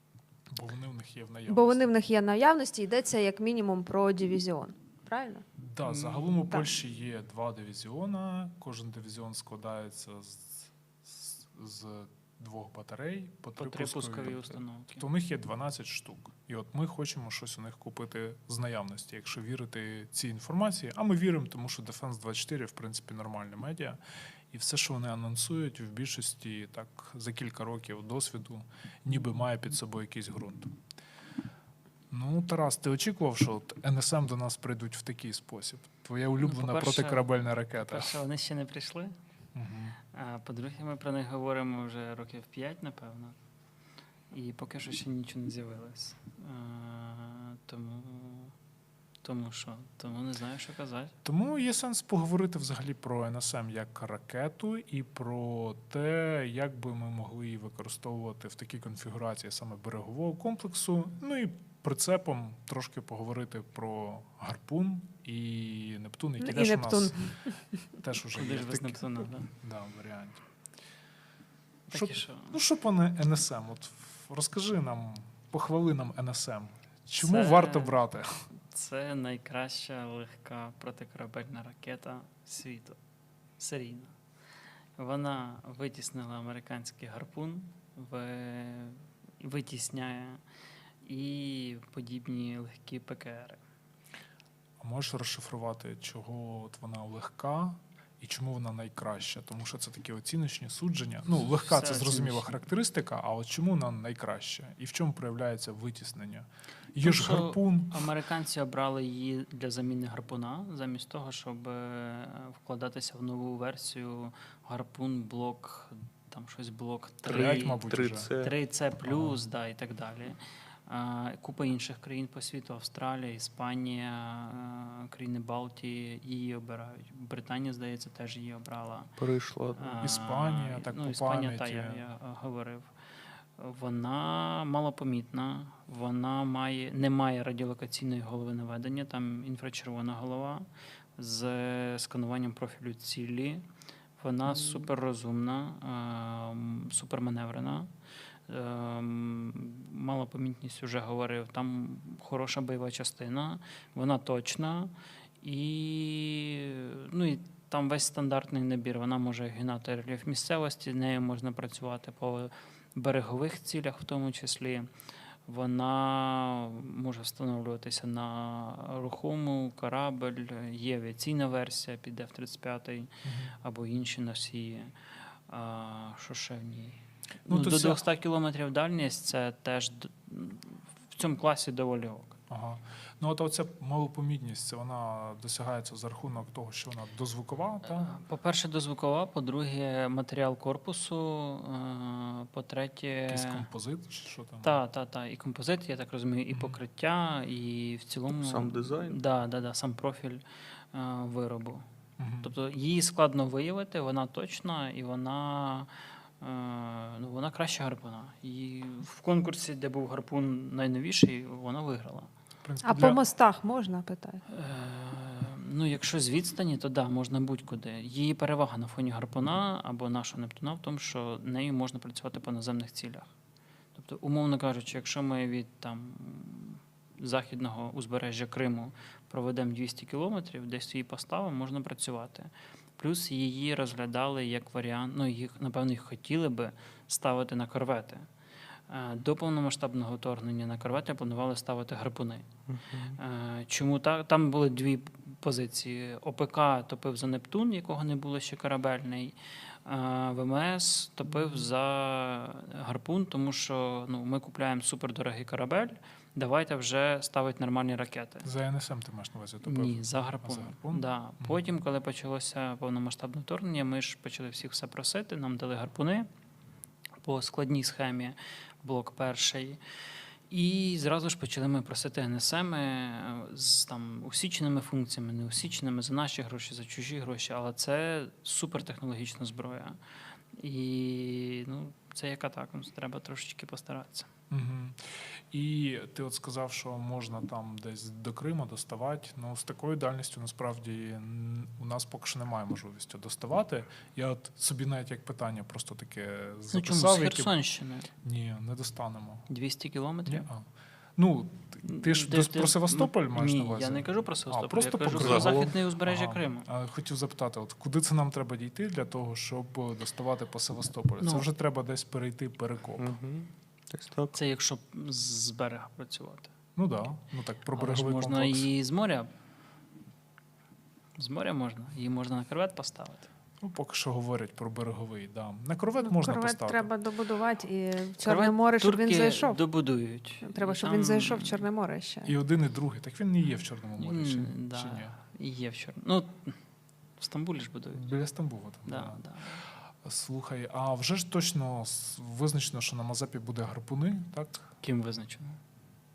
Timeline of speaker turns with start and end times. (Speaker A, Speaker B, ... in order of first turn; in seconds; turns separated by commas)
Speaker A: 0.5-1.9, Speaker B: 1.5-5.4, Speaker A: 5.6-24.0, Speaker C: 5.8-6.4, Speaker C: 13.6-15.1, Speaker A: 24.5-30.7, Speaker A: 32.1-38.2, Speaker C: 36.4-39.1, Speaker A: 39.5-40.0, Speaker C: 40.1-43.4, Speaker C: 44.3-48.5, Speaker C: 49.2-51.1, Speaker A: 51.2-67.2, Speaker B: 66.4-67.9, Speaker A: 68.0-70.4, Speaker C: 68.3-69.5, Speaker A: 71.9-78.4, Speaker C: 71.9-72.6, Speaker C: 77.2-78.0, Speaker C: 78.7-83.0, Speaker C: 83.6-84.1, Speaker C: 85.0-90.4, Speaker C: 91.0-93.6, Speaker A: 94.8-108.0, Speaker C: 101.4-102.5, Speaker C: 107.0-117.8, Speaker A: 117.2-118.3, Speaker D: 117.3-118.5, Speaker C: 118.4-129.1, Speaker A: 119.1-119.4, Speaker D: 129.2-130.0, Speaker C: 129.8-132.9, Speaker A: 130.0-132.1, Speaker C: 133.6-143.7, Speaker C: 144.2-147.9, Speaker C: 148.5-164.9, Speaker C: 165.5-173.1, Speaker A: 173.2-173.5, Speaker C: 173.6-174.9, Speaker C: 175.5-182.4, Speaker A: 177.5-178.0, Speaker A: 182.5-188.1, Speaker C: 187.9-193.7, Speaker A: 193.3-194.8, Speaker C: 194.6-201.8, Speaker A: 196.5-196.8, Speaker D: 198.3-199.2, Speaker A: 202.2-202.5, Speaker C: 202.4-205.9, Speaker C: 206.4-212.3, Speaker A: 212.6-213.2, Speaker B: 212.8-214.4, Speaker C: 214.5-223.3, Speaker C: 223.9-238.3, Speaker C: 238.9-242.5, Speaker D: 242.7-243.2, Speaker C: 243.1-258.5, Speaker A: 258.4-261.6, Speaker C: 259.6-266.3, Speaker C: 267.2-269.8, Speaker C: 270.5-280.0, Speaker C: 280.6-284.3, Speaker A: 284.5-297.5, Speaker C: 296.7-298.1, Speaker A: 298.2-299.5, Speaker C: 299.5-300.5, Speaker A: 300.3-300.7, Speaker A: 301.2-313.1, Speaker C: 301.9-306.7, Speaker D: 305.1-305.6, Speaker C: 311.2-311.5, Speaker D: 313.0-314.4, Speaker C: 314.3-316.5, Speaker A: 316.8-318.7, Speaker C: 317.8-319.3, Speaker C: 321.2-323.3, Speaker A: 323.6-326.9, Speaker B: 326.0-329.6, Speaker C: 328.2-331.6, Speaker B: 330.4-332.3, Speaker A: 332.2-335.1, Speaker C: 334.0-336.6, Speaker C: 337.2-338.1, Speaker A: 337.9-339.2, Speaker C: 338.9-339.6, Speaker A: 339.9-344.7, Speaker C: 344.8-345.6